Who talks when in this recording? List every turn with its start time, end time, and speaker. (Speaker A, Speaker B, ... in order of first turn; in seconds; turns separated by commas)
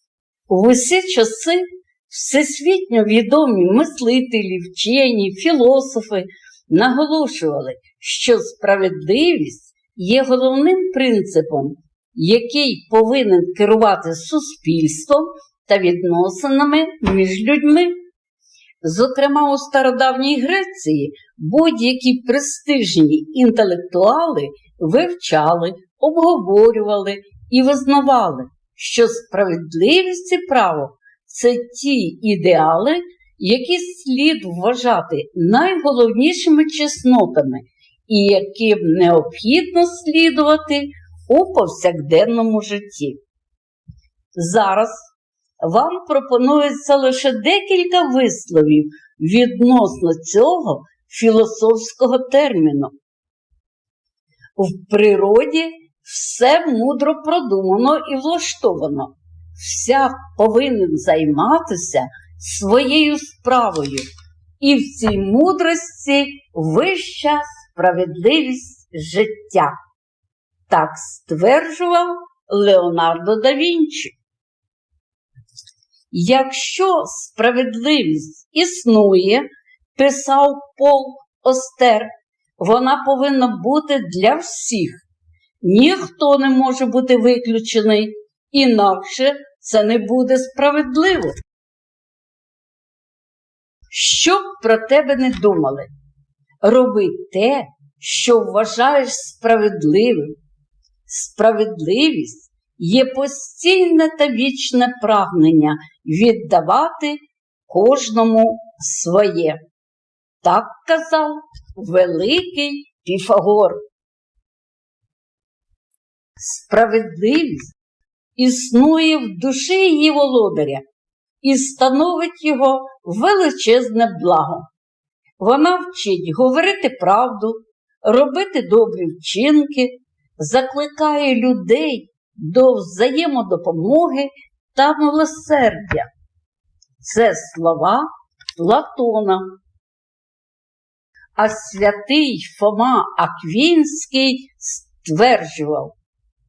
Speaker A: 0.5-18.0, Speaker A: 18.8-43.2, Speaker A: 44.3-45.1, Speaker A: 45.6-52.9, Speaker A: 54.5-64.0, Speaker A: 64.6-69.7, Speaker A: 70.7-74.2, Speaker A: 76.1-85.0, Speaker A: 85.6-91.3, Speaker A: 93.9-95.9, Speaker A: 96.6-100.3, Speaker A: 101.1-109.6, Speaker A: 110.4-113.8, Speaker A: 116.4-117.7, Speaker A: 118.3-120.8, Speaker A: 121.4-124.7, Speaker A: 125.4-136.1, Speaker A: 137.0-139.5, Speaker A: 141.3-145.9